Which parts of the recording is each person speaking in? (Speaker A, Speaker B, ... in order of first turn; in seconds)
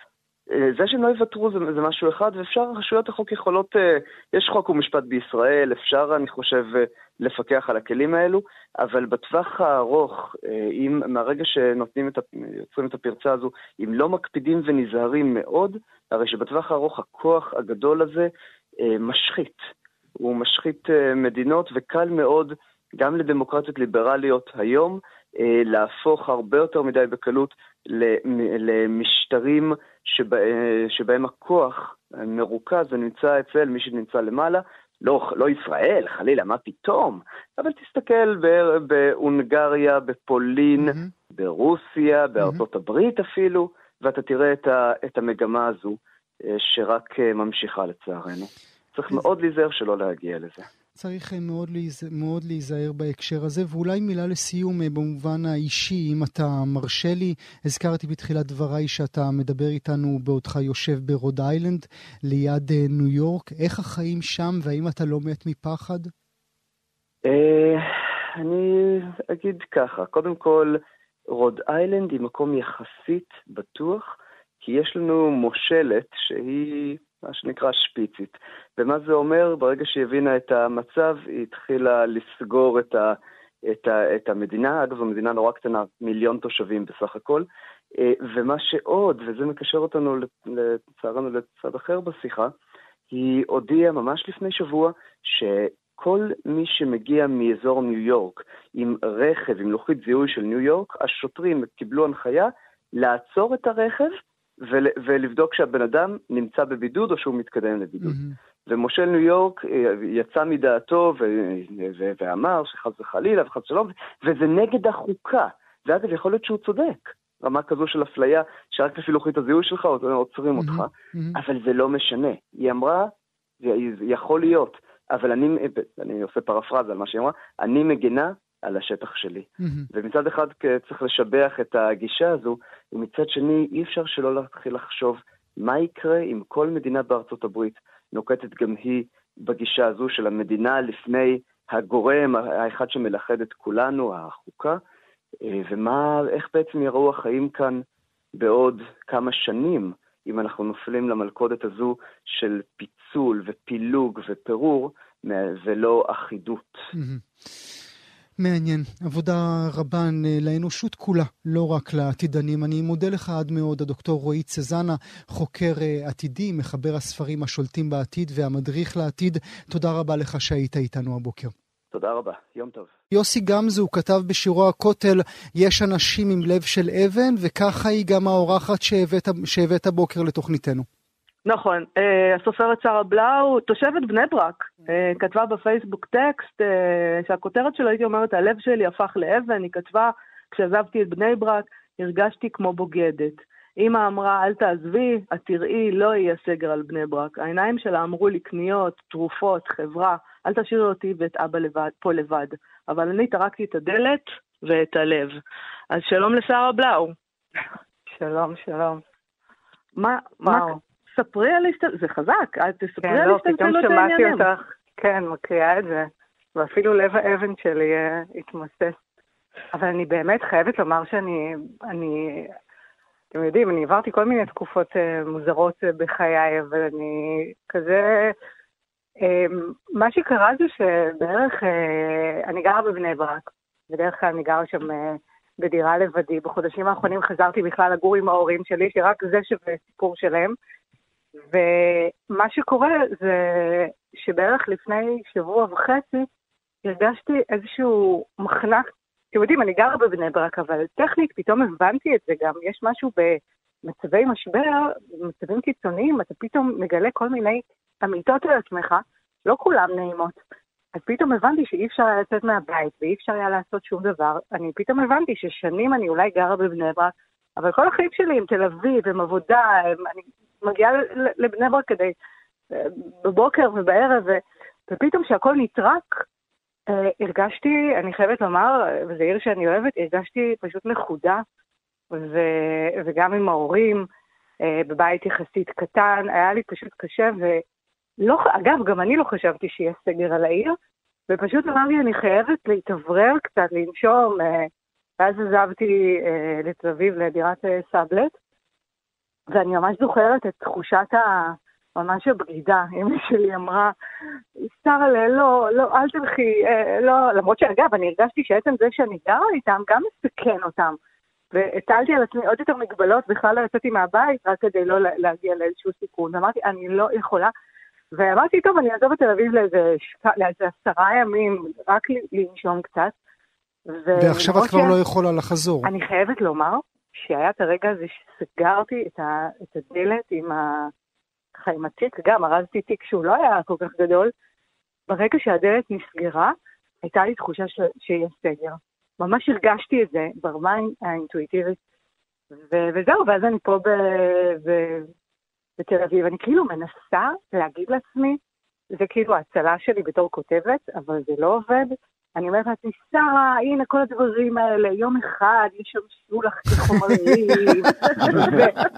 Speaker A: 0.5-50.7, 67.3-92.5, 93.1-144.8, 145.4-147.8, 148.4-156.9, 171.9-172.9
Speaker B: 40.8-41.1, 51.0-66.1, 108.0-108.4, 120.6-121.4, 129.6-129.9, 156.9-157.2, 158.4-171.5, 173.1-180.9, 324.2-325.9
Speaker C: 181.5-205.4, 205.9-207.1, 210.0-214.5
Speaker D: 208.2-209.0, 210.5-210.8, 213.0-219.0, 219.7-222.5, 223.3-228.4, 229.2-240.6, 241.5-246.3, 246.8-260.4, 260.9-272.1, 272.7-276.2, 276.9-281.4, 282.1-284.1, 284.6-287.6, 288.2-290.8, 291.3-298.3, 299.5-303.9, 304.7-311.0, 311.5-317.5, 318.1-323.1, 323.9-325.0, 325.8-330.9, 331.6-334.3, 335.1-341.8, 342.7-345.1, 345.8-348.4, 348.9-358.8